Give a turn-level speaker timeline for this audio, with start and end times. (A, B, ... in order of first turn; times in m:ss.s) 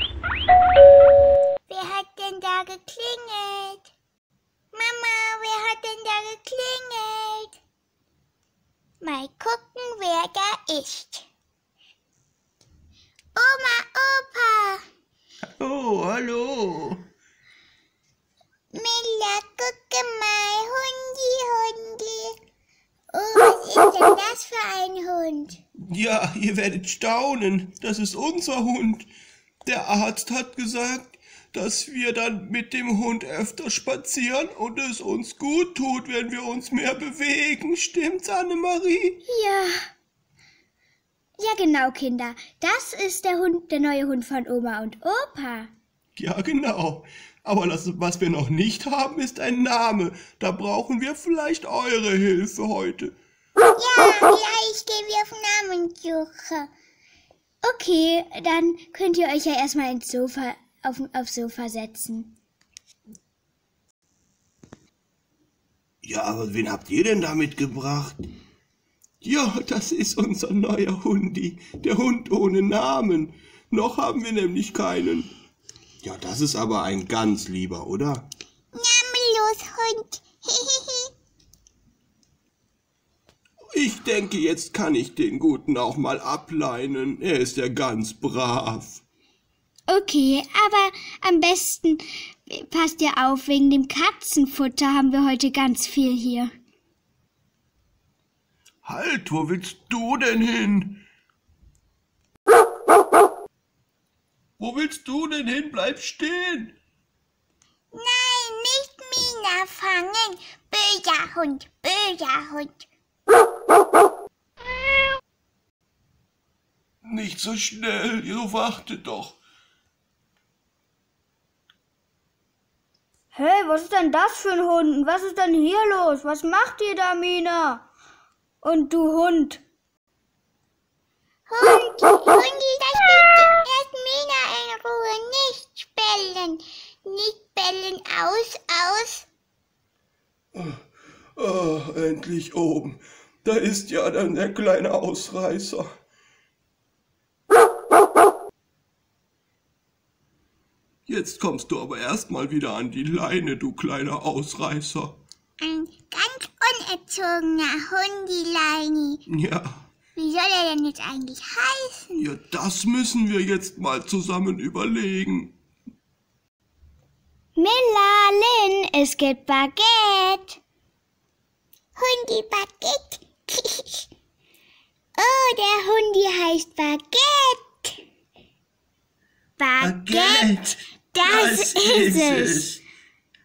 0:01.7-0:03.8 A
0:04.7-0:07.5 A
0:09.0-0:11.2 A
0:13.4-0:14.8 A
0:15.6-0:17.0 B
0:18.7-0:22.4 A
0:23.1-0:25.6 A
0:25.8-0:29.1 B
0:29.6-0:39.2 B
0:39.3-0:39.8 C
0:41.4-0:45.7 C
0:46.2-0:53.2 B
0:53.8-0:56.7 A
0:57.6-1:02.3 C
1:06.0-1:08.2 B
1:09.2-1:15.3 B
1:16.0-1:18.3 B
1:18.8-1:21.1 A
1:23.7-1:29.0 B
1:29.9-1:36.5 C
1:38.8-1:41.0 B
1:44.6-1:46.7 B
1:48.0-1:52.8 A
1:57.0-1:59.4 B
2:03.3-2:07.8 D
2:08.6-2:09.6 D
2:11.5-2:19.2 A
2:20.5-2:20.8 B
2:21.4-2:25.9 B
2:31.1-2:35.2 B
2:35.6-2:39.2 A
2:39.3-2:39.8 B
2:40.2-2:42.2 A
2:42.2-2:45.5 B
2:47.6-2:50.6 C
2:52.0-2:54.1 A
2:55.2-2:57.9 A
2:59.6-3:00.5 A
2:59.8-3:02.8 B
3:01.2-3:01.8 A
3:01.3-3:02.7 C